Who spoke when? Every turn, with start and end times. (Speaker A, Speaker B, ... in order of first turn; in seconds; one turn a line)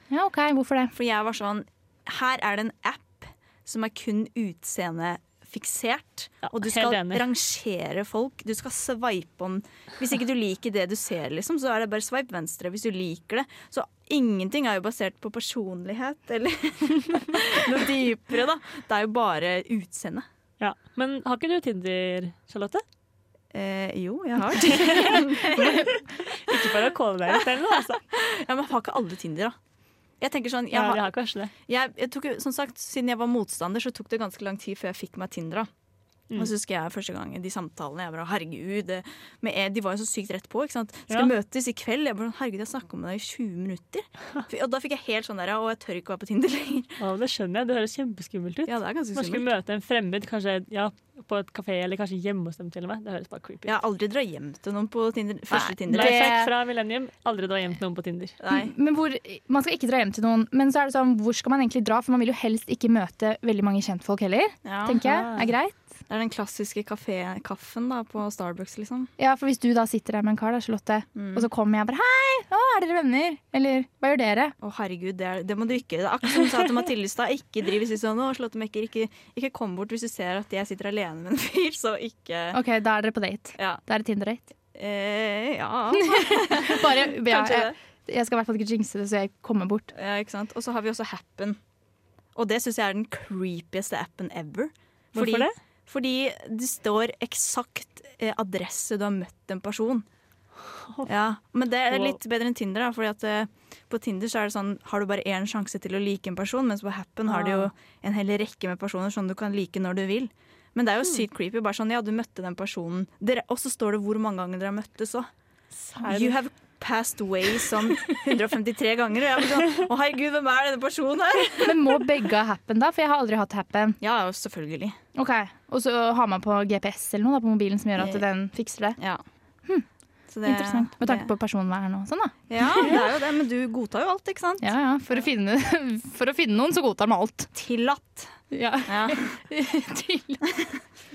Speaker A: 0.1-0.9
Speaker B: 0.9-20.3
Speaker C: 6.5-7.3
Speaker C: 20.6-22.8
Speaker B: 23.5-26.7
Speaker C: 24.5-28.0
Speaker B: 28.1-29.6
Speaker B: 30.2-31.1
Speaker C: 30.7-31.5
Speaker B: 31.7-35.7
Speaker B: 36.4-46.9
Speaker C: 41.1-41.3
Speaker C: 47.0-53.8
Speaker B: 48.7-49.5
Speaker B: 53.7-56.3
Speaker A: 55.5-56.5
Speaker C: 55.9-58.4
Speaker B: 58.4-58.7
Speaker A: 58.5-65.9
Speaker B: 64.7-65.0
Speaker C: 65.0-65.5
Speaker B: 66.1-69.1
Speaker A: 69.2-74.5
Speaker B: 71.2-71.5
Speaker B: 74.6-82.6
Speaker A: 82.5-84.5
Speaker B: 84.7-87.7
Speaker A: 85.9-89.9
Speaker B: 89.9-91.6
Speaker B: 92.3-100.1
Speaker C: 95.2-95.6
Speaker B: 101.0-115.3
Speaker C: 101.9-102.2
Speaker C: 107.3-107.7
Speaker C: 115.8-116.4
Speaker B: 116.1-122.0
Speaker A: 121.6-124.0
Speaker B: 124.0-125.0
Speaker A: 125.2-129.0
Speaker B: 129.0-129.2
Speaker B: 130.3-131.3
Speaker A: 130.4-133.0
Speaker B: 132.5-134.7
Speaker C: 132.8-133.1
Speaker A: 134.6-137.5
Speaker B: 137.6-138.3
Speaker A: 138.5-140.5
Speaker B: 138.9-139.3